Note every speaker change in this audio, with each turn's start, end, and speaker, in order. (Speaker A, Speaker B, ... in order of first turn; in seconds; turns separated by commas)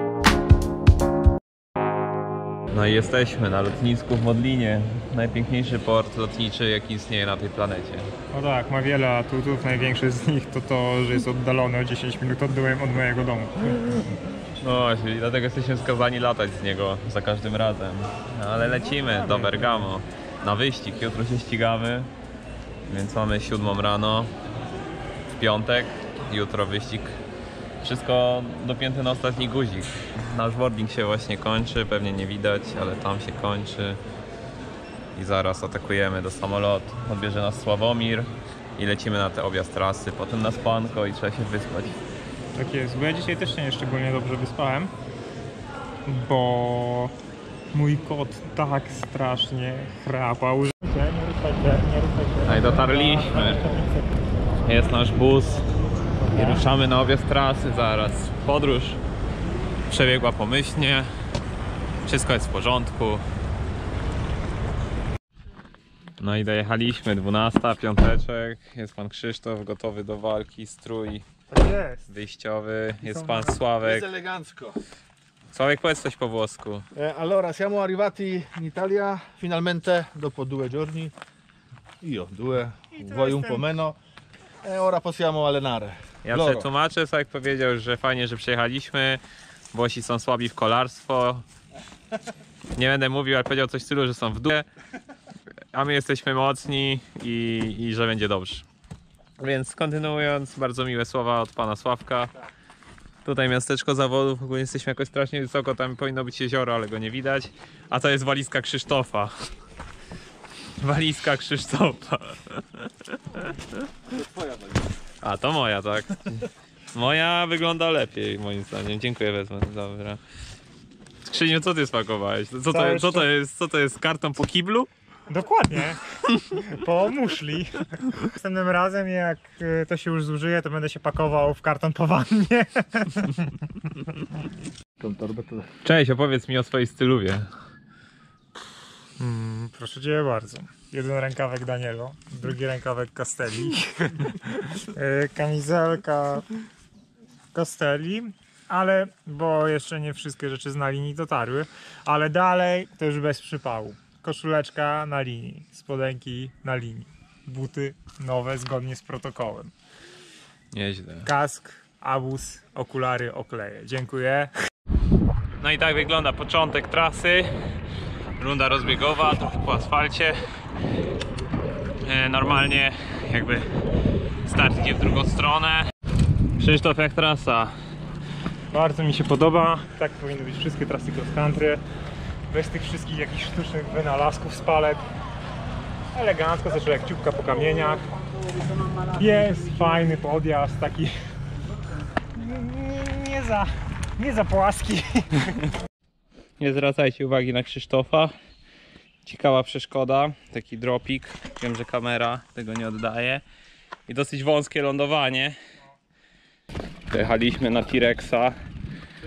Speaker A: 2.8-8.1, Speaker B: 8.3-14.0, Speaker A: 14.6-22.1, Speaker B: 18.6-19.9, Speaker A: 22.9-24.3, Speaker A: 25.4-27.1, Speaker A: 27.8-34.0, Speaker A: 35.2-42.0, Speaker B: 42.5-44.9, Speaker B: 46.0-47.1, Speaker B: 47.7-54.1, Speaker A: 52.5-53.6, Speaker A: 54.6-55.6, Speaker B: 56.2-56.7, Speaker A: 56.3-59.0, Speaker A: 59.9-61.1, Speaker A: 62.0-63.2, Speaker A: 66.2-71.2, Speaker B: 71.5-72.1, Speaker A: 72.1-74.0, Speaker B: 73.0-73.6, Speaker C: 73.8-74.8, Speaker A: 75.5-76.8, Speaker C: 76.9-81.1, Speaker C: 82.0-84.0, Speaker B: 82.9-83.7, Speaker C: 84.6-86.7, Speaker A: 86.2-89.2, Speaker A: 89.7-91.4, Speaker A: 92.8-94.7, Speaker A: 95.7-98.6, Speaker A: 99.4-102.3, Speaker A: 103.2-109.3, Speaker A: 110.8-113.5, Speaker C: 114.1-114.8, Speaker A: 115.2-116.4, Speaker A: 116.9-120.2, Speaker A: 121.2-124.9, Speaker B: 122.7-123.2, Speaker B: 125.3-133.7, Speaker C: 135.0-135.7, Speaker A: 135.8-137.5, Speaker B: 139.2-146.5, Speaker B: 147.5-159.7, Speaker A: 160.7-161.2, Speaker B: 161.2-164.5, Speaker A: 165.6-167.5, Speaker A: 168.4-170.4, Speaker A: 172.0-173.7, Speaker A: 174.4-175.8, Speaker A: 176.6-177.7, Speaker B: 178.7-181.8, Speaker B: 182.5-185.1, Speaker B: 186.1-188.1, Speaker B: 189.1-191.2, Speaker B: 192.3-195.5, Speaker A: 196.6-198.3, Speaker A: 199.2-203.4, Speaker A: 204.1-205.6, Speaker A: 207.1-208.5